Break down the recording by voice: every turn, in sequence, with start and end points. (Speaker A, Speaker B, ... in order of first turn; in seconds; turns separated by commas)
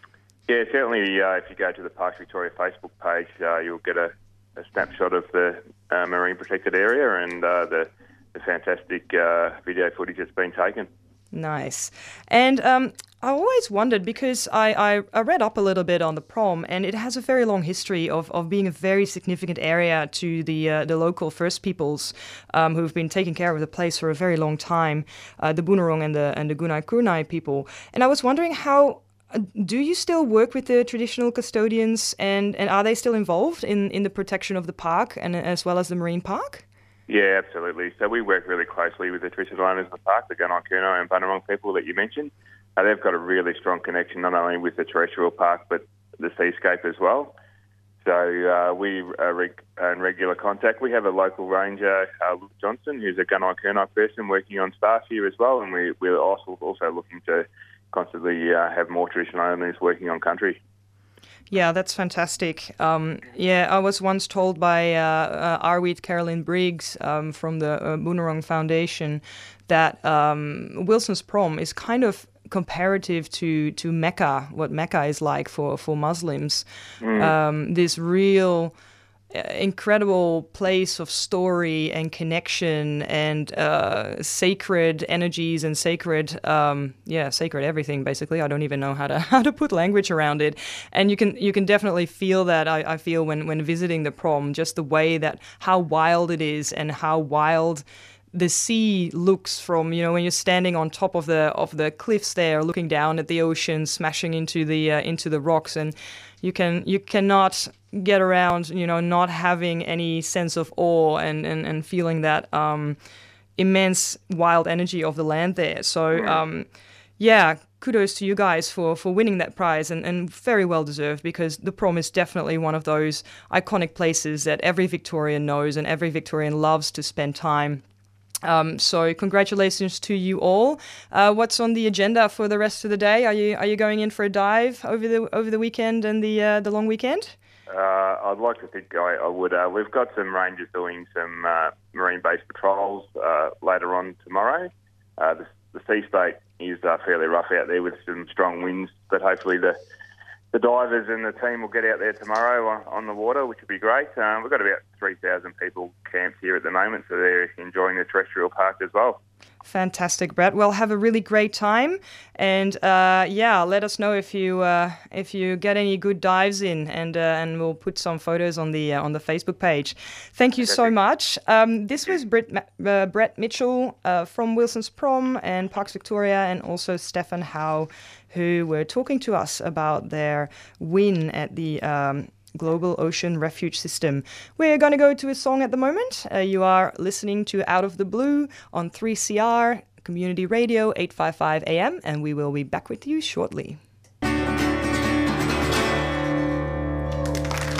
Speaker A: 0.5-10.9, Speaker B: 11.3-36.6, Speaker A: 37.1-47.4, Speaker A: 48.0-60.6, Speaker B: 61.5-76.7, Speaker A: 77.0-77.3, Speaker B: 77.2-78.7, Speaker B: 79.3-113.0, Speaker B: 113.6-116.7, Speaker B: 117.2-127.8, Speaker B: 128.4-137.4, Speaker A: 137.7-149.8, Speaker A: 150.5-159.2, Speaker B: 159.6-193.8